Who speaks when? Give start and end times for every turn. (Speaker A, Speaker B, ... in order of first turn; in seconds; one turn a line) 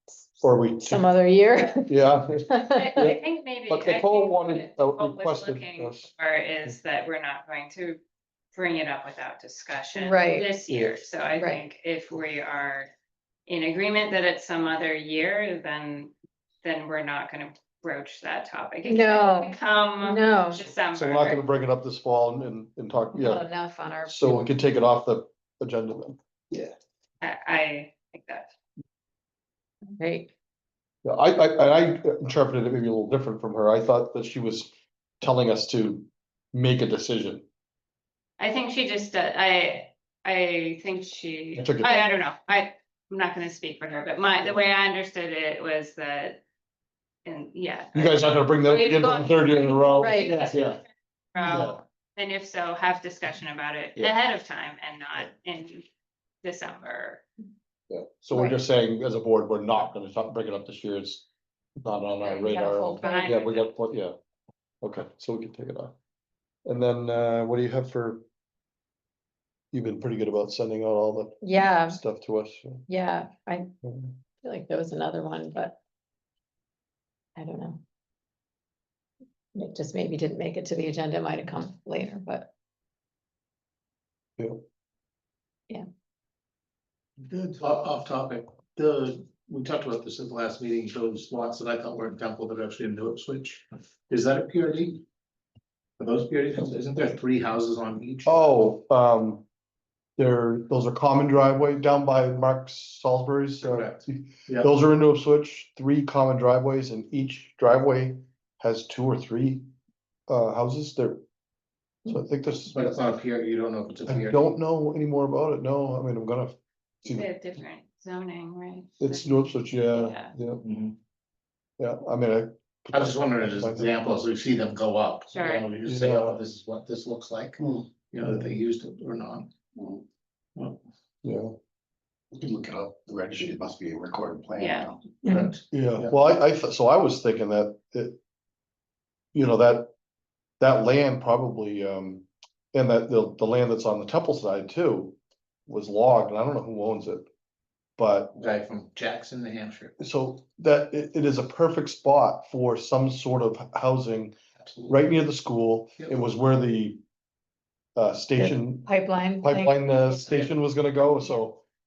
Speaker A: 0.4-1.1
Speaker B: 0.8-2.9
Speaker A: 1.9-3.2
Speaker C: 2.7-8.0
Speaker A: 3.7-6.1
Speaker C: 8.5-12.9
Speaker B: 9.9-10.5
Speaker A: 10.7-11.0
Speaker B: 11.3-11.6
Speaker C: 13.5-16.1
Speaker C: 16.6-21.4
Speaker B: 18.8-20.7
Speaker A: 20.9-23.4
Speaker B: 23.1-24.6
Speaker A: 24.1-26.2
Speaker C: 27.2-28.5
Speaker B: 29.9-30.3
Speaker A: 31.0-37.4
Speaker C: 38.4-46.4
Speaker A: 41.5-42.0
Speaker C: 47.2-50.8
Speaker A: 47.9-50.5
Speaker B: 50.0-50.4
Speaker D: 50.4-50.8
Speaker C: 51.3-55.9
Speaker A: 51.5-51.8
Speaker C: 56.4-57.2
Speaker A: 57.9-61.2
Speaker B: 58.3-58.6
Speaker A: 61.8-64.1
Speaker B: 62.3-63.3
Speaker C: 63.0-63.7
Speaker A: 64.8-65.9
Speaker A: 66.7-68.2
Speaker A: 69.7-72.8
Speaker B: 71.4-72.0
Speaker B: 72.9-73.7
Speaker A: 73.8-74.1
Speaker B: 74.4-75.8
Speaker B: 77.3-77.8
Speaker B: 79.5-82.5
Speaker E: 87.6-95.0
Speaker E: 96.0-98.6
Speaker A: 98.2-99.4
Speaker A: 100.2-109.7
Speaker E: 103.6-104.7
Speaker A: 110.3-111.2
Speaker A: 112.0-113.0
Speaker E: 112.7-114.5
Speaker A: 114.1-117.3
Speaker C: 117.1-120.3
Speaker A: 119.0-120.6
Speaker E: 120.6-120.9
Speaker A: 121.8-123.9
Speaker E: 122.9-129.5
Speaker C: 125.3-125.7
Speaker A: 125.8-126.4
Speaker D: 127.6-127.8
Speaker A: 128.2-128.5
Speaker D: 129.8-130.0
Speaker A: 131.2-131.5
Speaker D: 132.3-135.0
Speaker C: 134.6-134.9
Speaker B: 135.2-135.5
Speaker E: 135.3-136.1
Speaker A: 135.7-138.2
Speaker A: 139.3-139.9
Speaker A: 140.6-147.3
Speaker A: 148.0-148.4
Speaker E: 148.3-149.9
Speaker A: 150.0-154.3
Speaker E: 154.6-154.9
Speaker A: 154.9-157.0
Speaker A: 157.9-161.6
Speaker B: 158.4-160.1
Speaker E: 160.2-160.5